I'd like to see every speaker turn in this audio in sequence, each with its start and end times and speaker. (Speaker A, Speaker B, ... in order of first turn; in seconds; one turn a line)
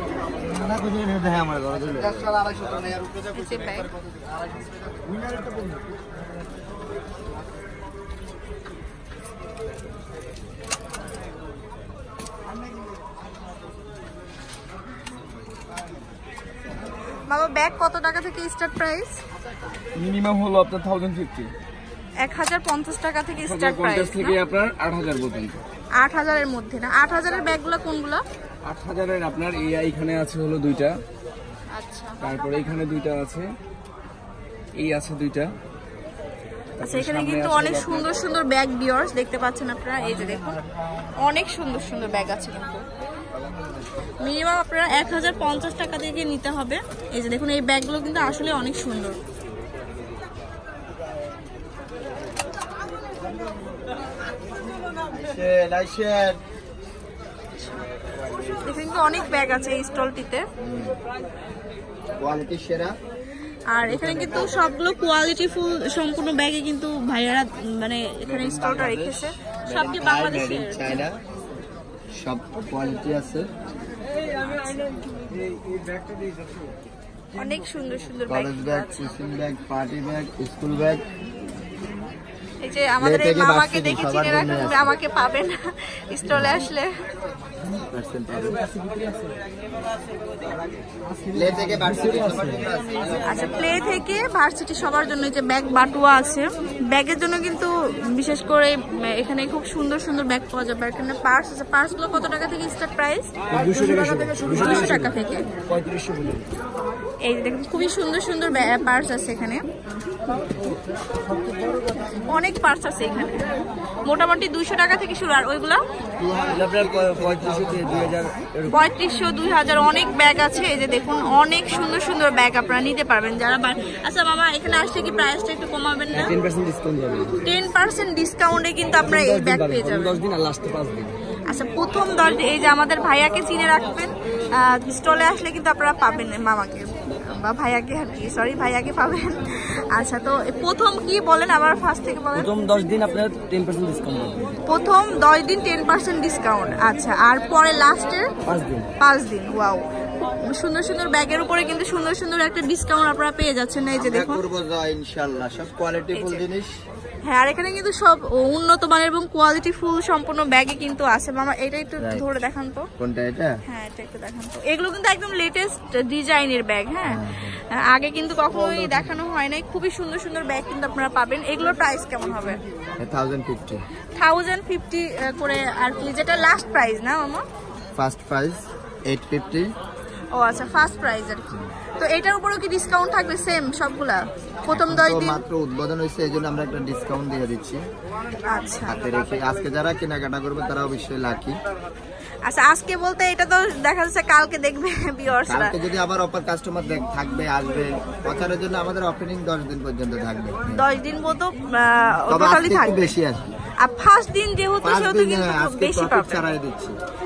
Speaker A: 0.4-2.8
Speaker B: 3.3-3.9
Speaker B: 17.3-19.2
Speaker C: 20.0-21.5
Speaker B: 22.2-24.4
Speaker C: 23.4-25.6
Speaker B: 26.0-28.2
Speaker C: 28.6-31.0
Speaker B: 31.7-32.2
Speaker C: 32.2-33.5
Speaker C: 34.8-35.5
Speaker C: 36.8-38.1
Speaker B: 36.8-40.6
Speaker B: 41.2-42.9
Speaker A: 43.5-43.7
Speaker B: 44.2-49.2
Speaker A: 55.1-56.4
Speaker B: 58.6-60.4
Speaker A: 60.6-61.0
Speaker A: 62.2-63.0
Speaker B: 63.7-71.0
Speaker A: 63.8-64.6
Speaker A: 68.2-71.2
Speaker A: 72.2-73.5
Speaker B: 74.3-74.8
Speaker D: 75.7-76.3
Speaker B: 77.3-79.1
Speaker A: 78.3-81.0
Speaker B: 82.6-86.9
Speaker A: 83.0-85.0
Speaker A: 86.3-86.6
Speaker A: 87.7-88.7
Speaker A: 91.3-93.7
Speaker B: 93.2-103.3
Speaker D: 103.5-105.2
Speaker B: 104.5-105.5
Speaker D: 105.7-106.5
Speaker B: 107.2-109.6
Speaker B: 112.3-113.5
Speaker B: 114.1-115.8
Speaker A: 116.2-118.2
Speaker D: 116.5-118.8
Speaker B: 118.7-126.3
Speaker D: 126.1-127.5
Speaker B: 127.4-130.2
Speaker D: 129.0-131.2
Speaker B: 131.5-142.5
Speaker D: 142.3-144.6
Speaker B: 144.7-148.3
Speaker D: 148.4-148.9
Speaker B: 149.0-149.8
Speaker B: 150.4-154.4
Speaker A: 154.0-156.7
Speaker B: 156.1-156.4
Speaker B: 157.3-162.9
Speaker A: 162.0-162.4
Speaker A: 163.0-163.6
Speaker B: 163.7-172.6
Speaker A: 167.1-167.6
Speaker A: 173.0-173.8
Speaker B: 174.2-177.4
Speaker A: 178.0-179.7
Speaker B: 180.3-185.4
Speaker A: 184.6-187.8
Speaker B: 188.5-189.0
Speaker A: 188.9-191.6
Speaker B: 192.4-195.7
Speaker A: 195.4-200.8
Speaker B: 200.7-203.1
Speaker A: 202.3-203.5
Speaker B: 203.8-206.4
Speaker A: 204.8-207.0